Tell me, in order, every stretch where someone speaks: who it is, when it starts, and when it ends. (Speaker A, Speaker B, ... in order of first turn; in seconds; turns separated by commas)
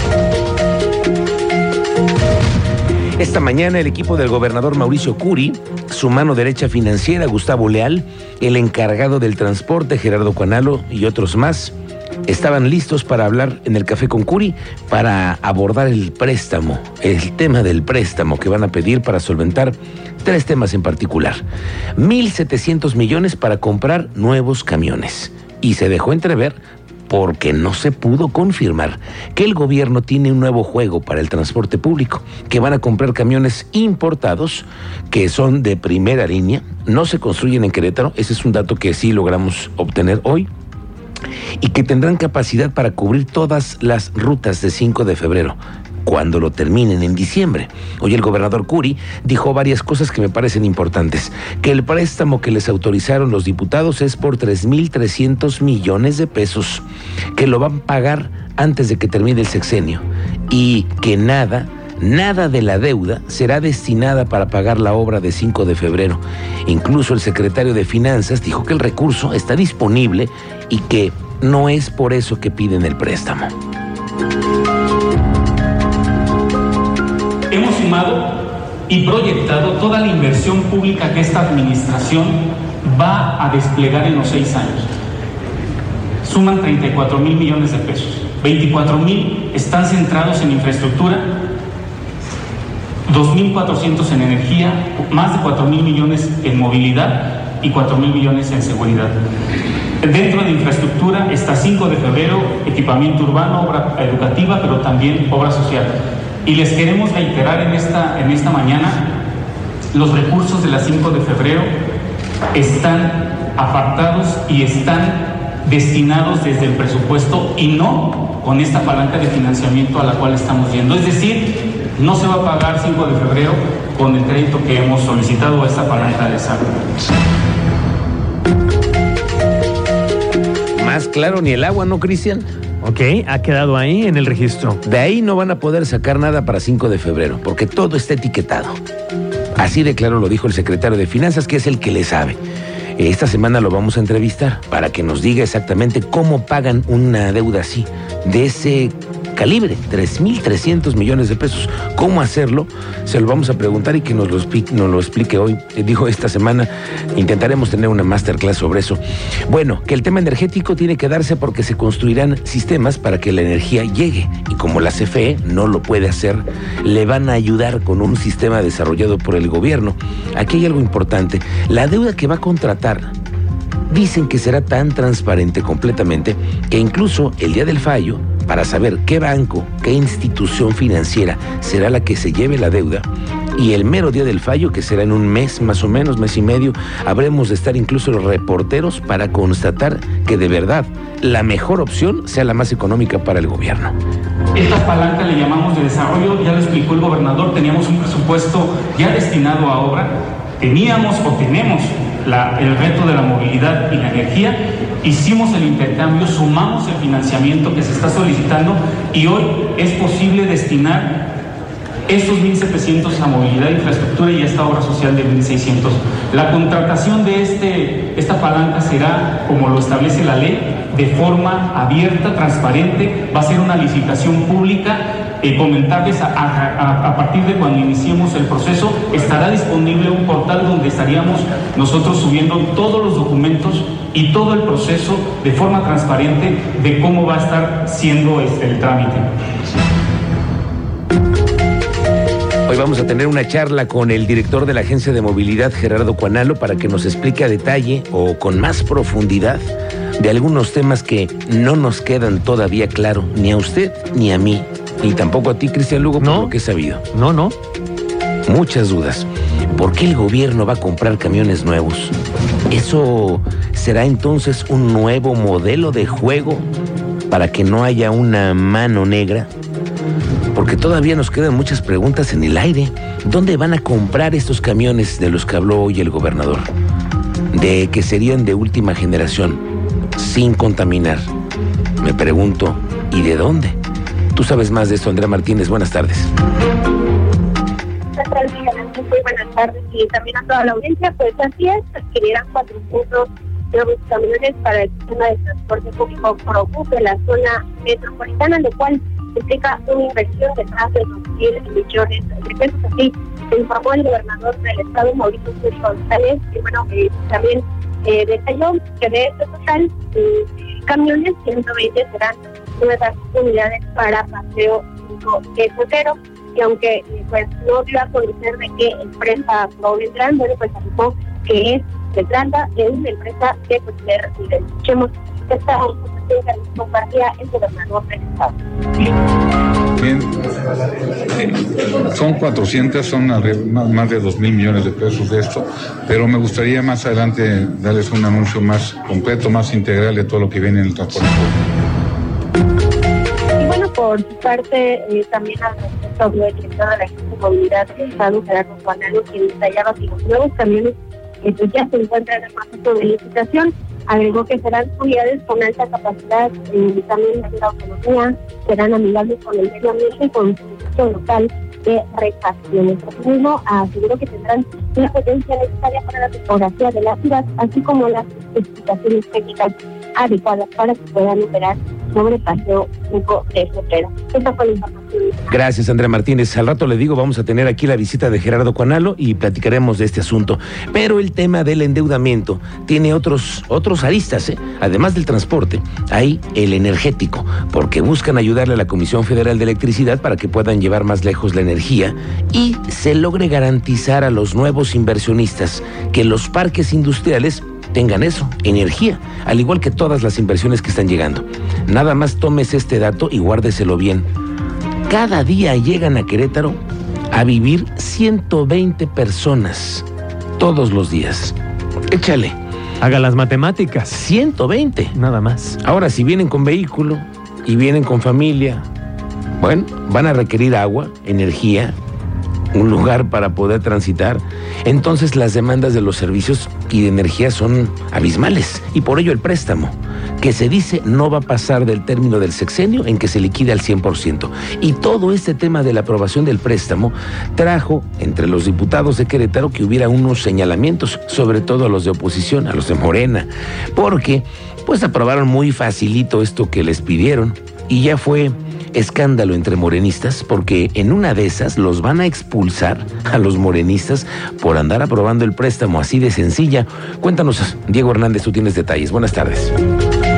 Speaker A: 3.2-11.8, Speaker A: 12.3-21.4, Speaker A: 22.0-40.5, Speaker A: 41.6-56.9, Speaker A: 57.4-73.5, Speaker B: 77.5-78.3, Speaker B: 78.9-84.9, Speaker B: 86.2-91.3, Speaker B: 93.1-99.1, Speaker B: 100.0-105.9, Speaker B: 106.5-109.0, Speaker B: 109.9-111.7, Speaker B: 112.5-121.5, Speaker B: 122.0-126.7, Speaker A: 130.8-132.5, Speaker C: 132.8-134.8, Speaker A: 134.8-138.8, Speaker A: 139.6-142.4, Speaker A: 143.0-173.1, Speaker A: 173.9-194.0, Speaker B: 194.6-211.1, Speaker B: 212.1-239.3, Speaker A: 242.7-257.1, Speaker C: 256.2-256.6, Speaker C: 257.1-257.6, Speaker A: 258.5-262.1, Speaker A: 262.7-266.7, Speaker A: 267.3-269.5, Speaker A: 270.5-276.7, Speaker A: 277.5-279.6, Speaker A: 280.2-281.2, Speaker A: 282.0-283.8, Speaker A: 284.4-286.3, Speaker D: 288.2-328.5, Speaker E: 330.0-330.3, Speaker E: 331.3-341.5, Speaker D: 343.6-375.5, Speaker A: 375.5-404.3, Speaker A: 405.1-406.8, Speaker A: 407.3-410.1, Speaker A: 410.6-411.6, Speaker A: 412.1-412.6, Speaker C: 413.0-414.2, Speaker A: 414.1-415.2, Speaker C: 415.1-415.7, Speaker A: 415.7-418.9, Speaker A: 419.6-421.9, Speaker A: 422.7-459.7